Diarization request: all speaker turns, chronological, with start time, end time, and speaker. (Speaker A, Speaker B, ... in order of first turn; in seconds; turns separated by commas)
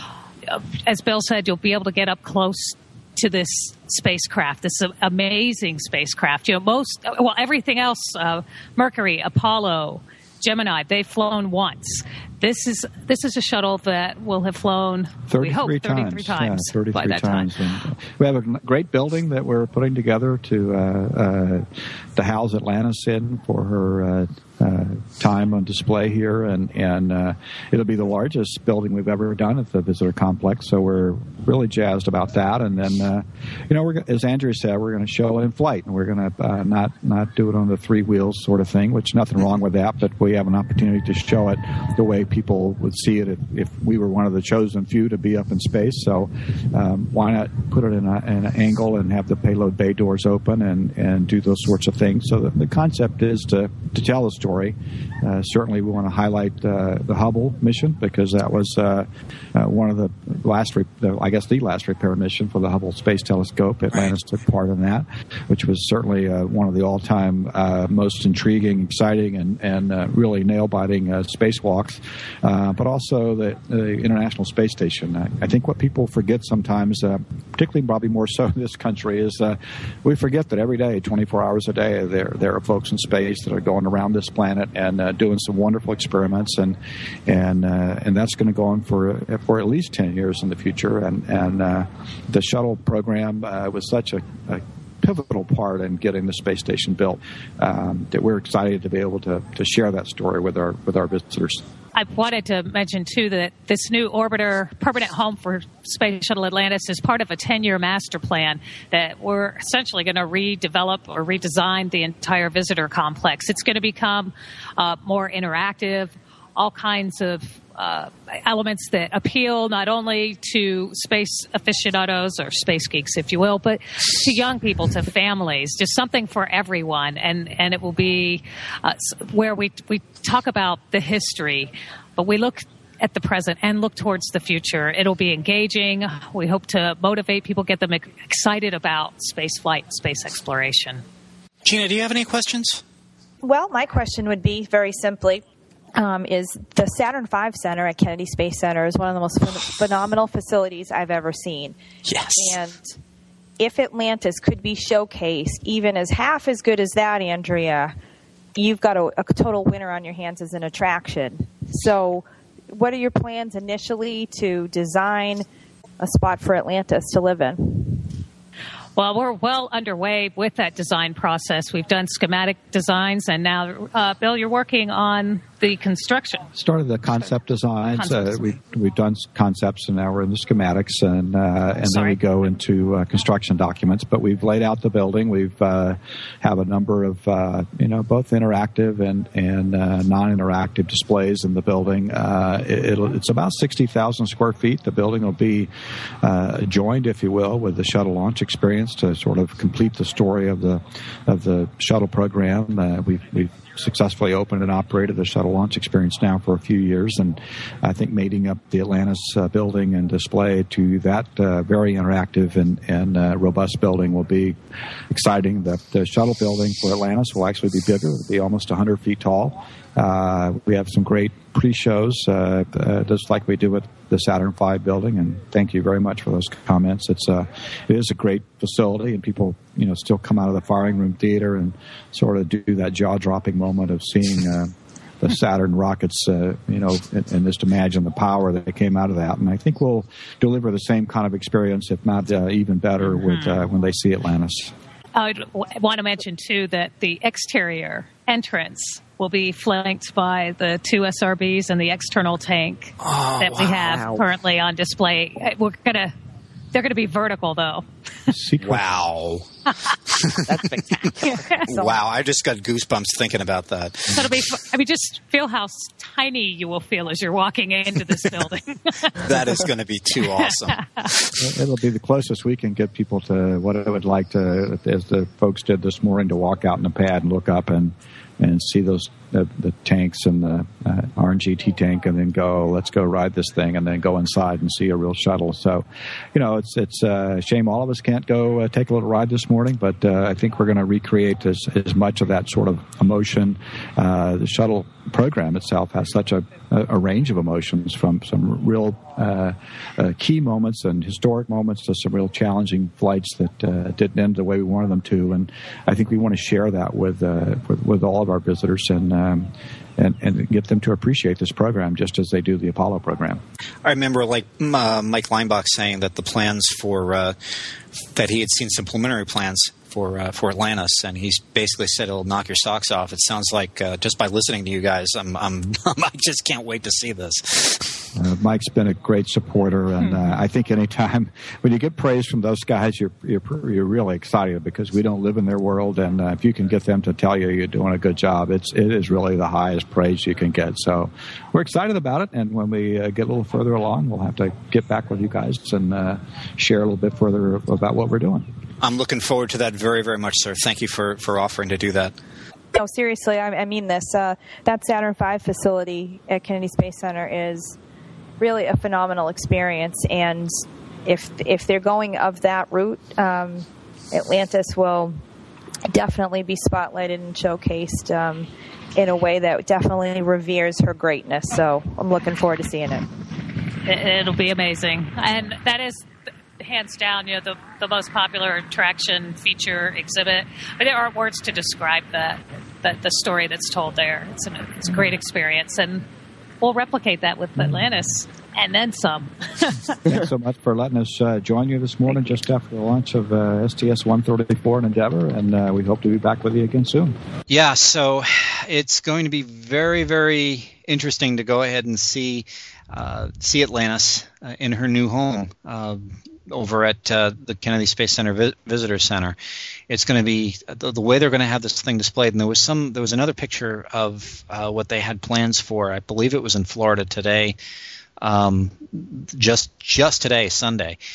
Speaker A: 0.5-17.5, Speaker B: 15.3-101.6, Speaker A: 101.9-141.0, Speaker C: 141.6-142.8, Speaker D: 143.4-145.4, Speaker D: 145.9-151.8, Speaker C: 152.0-152.6, Speaker D: 152.3-152.8, Speaker D: 153.6-157.9, Speaker D: 158.6-165.4, Speaker D: 166.0-168.1, Speaker A: 168.9-176.5, Speaker B: 176.6-195.7, Speaker A: 177.9-178.5, Speaker A: 181.8-182.2, Speaker B: 196.2-214.5, Speaker B: 215.1-244.7, Speaker A: 243.0-243.7, Speaker A: 245.1-256.1, Speaker C: 253.0-254.2, Speaker A: 256.7-258.3, Speaker B: 258.3-258.8, Speaker C: 258.6-259.4, Speaker C: 260.1-264.3, Speaker A: 261.3-261.7, Speaker A: 264.1-269.4, Speaker C: 269.2-271.3, Speaker A: 270.2-271.1, Speaker B: 271.4-313.4, Speaker C: 313.8-317.4, Speaker C: 318.1-328.1, Speaker B: 328.1-348.5, Speaker A: 330.0-330.3, Speaker C: 348.8-352.1, Speaker D: 352.7-357.8, Speaker D: 358.4-365.1, Speaker D: 365.9-373.1, Speaker A: 373.9-376.0, Speaker A: 376.6-386.0, Speaker A: 386.6-390.1, Speaker B: 390.1-397.1, Speaker C: 397.5-409.4, Speaker C: 409.9-417.6, Speaker C: 418.2-421.0